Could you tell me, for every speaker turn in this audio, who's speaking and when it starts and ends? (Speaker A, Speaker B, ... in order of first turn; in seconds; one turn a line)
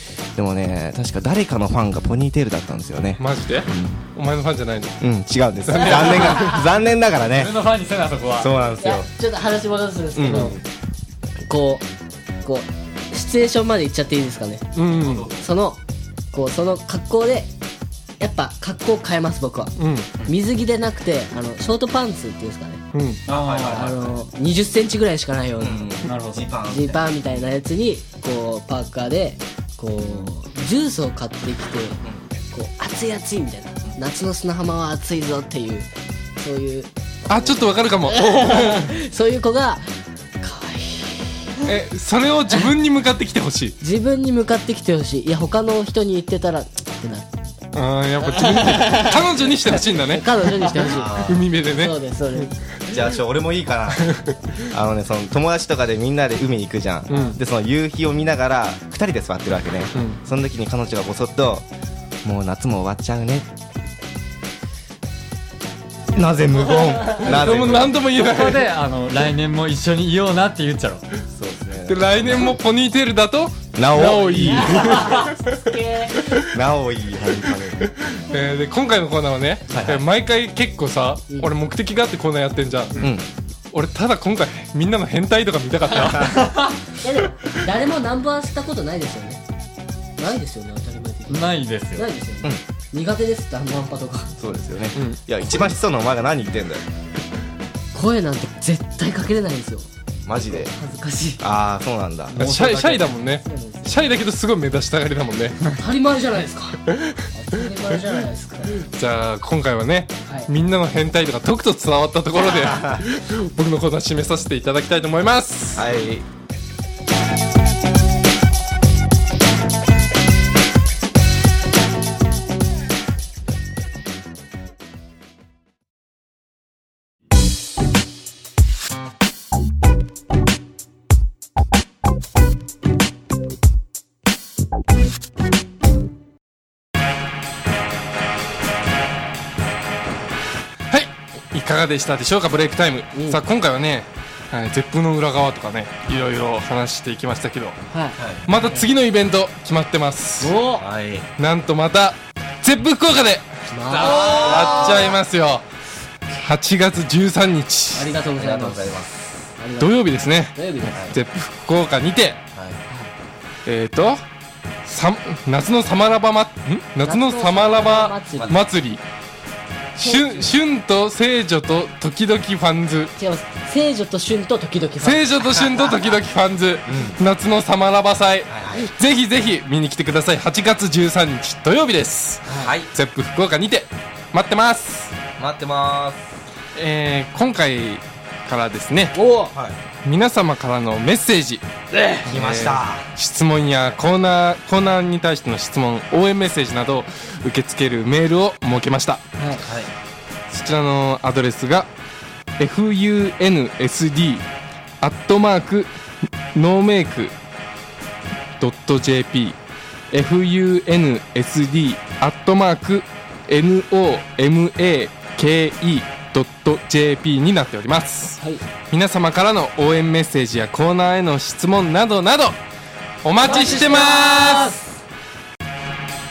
Speaker A: 0.3-4.0
Speaker B: 3.2-5.0
Speaker A: 5.0-7.5
Speaker B: 5.7-6.5
Speaker C: 5.7-6.7
Speaker D: 7.2-9.1
Speaker A: 8.3-9.0
Speaker C: 8.8-10.6
Speaker A: 10.1-10.6
Speaker C: 11.5-11.8
Speaker C: 12.4-14.7
Speaker B: 14.7-15.3
Speaker A: 15.0-15.5
Speaker C: 15.3-15.8
Speaker C: 16.3-17.5
Speaker C: 18.2-22.8
Speaker B: 19.8-20.1
Speaker B: 22.9-23.2
Speaker D: 23.2-23.9
Speaker A: 23.3-24.2
Speaker C: 23.6-26.0
Speaker A: 25.6-27.5
Speaker D: 26.0-26.5
Speaker C: 26.6-39.8
Speaker B: 37.3-38.9
Speaker C: 40.4-41.5
Speaker B: 41.6-43.8
Speaker C: 43.8-47.3
Speaker B: 47.7-50.3
Speaker C: 48.2-53.0
Speaker A: 50.9-51.5
Speaker B: 50.9-52.5
Speaker A: 52.9-61.7
Speaker B: 54.0-54.4
Speaker B: 57.1-57.4
Speaker B: 59.9-60.2
Speaker A: 62.2-63.5
Speaker A: 66.1-68.0
Speaker B: 67.1-68.7
Speaker D: 67.2-71.0
Speaker A: 71.3-72.6
Speaker B: 71.9-75.5
Speaker A: 73.8-74.9
Speaker C: 75.1-76.2
Speaker A: 76.4-77.9
Speaker B: 78.1-83.0
Speaker D: 79.7-80.0
Speaker A: 83.0-83.2
Speaker B: 83.7-86.5
Speaker D: 86.3-86.8
Speaker C: 87.0-89.4
Speaker C: 90.2-94.3
Speaker D: 91.3-92.1
Speaker A: 94.4-96.8
Speaker B: 94.9-95.6
Speaker C: 97.9-101.4
Speaker A: 100.2-100.7
Speaker A: 101.4-102.3
Speaker D: 102.3-103.3
Speaker B: 102.4-105.6
Speaker C: 103.3-104.2
Speaker C: 105.8-108.8
Speaker B: 108.8-115.9
Speaker A: 112.5-113.0
Speaker A: 115.8-116.2
Speaker B: 140.9-147.8
Speaker C: 143.1-143.4
Speaker C: 147.9-148.8
Speaker A: 148.2-148.5
Speaker B: 148.4-150.5
Speaker C: 150.4-150.8
Speaker A: 150.7-151.3
Speaker B: 151.4-155.6
Speaker C: 153.7-155.1
Speaker A: 153.9-155.2
Speaker B: 156.4-158.1
Speaker C: 157.9-158.9
Speaker A: 158.3-159.1
Speaker C: 159.6-160.0
Speaker B: 159.8-162.4
Speaker C: 160.5-161.1
Speaker B: 163.7-164.2
Speaker B: 164.8-169.0
Speaker C: 167.0-168.6
Speaker A: 168.4-168.6
Speaker B: 169.9-173.1
Speaker C: 170.0-170.5
Speaker C: 173.2-175.4
Speaker B: 175.0-185.1
Speaker A: 176.8-177.2
Speaker A: 178.5-178.9
Speaker A: 182.4-182.9
Speaker A: 185.4-186.3
Speaker B: 186.7-189.2
Speaker C: 189.1-189.5
Speaker B: 190.0-191.6
Speaker B: 192.2-199.2
Speaker A: 192.2-193.1
Speaker C: 199.4-199.6
Speaker A: 199.6-199.9
Speaker B: 200.5-201.9
Speaker B: 202.6-204.4
Speaker B: 205.0-205.9
Speaker B: 206.5-207.3
Speaker B: 208.6-209.6
Speaker B: 210.1-222.6
Speaker B: 223.2-224.8
Speaker C: 223.4-224.8
Speaker D: 223.4-224.5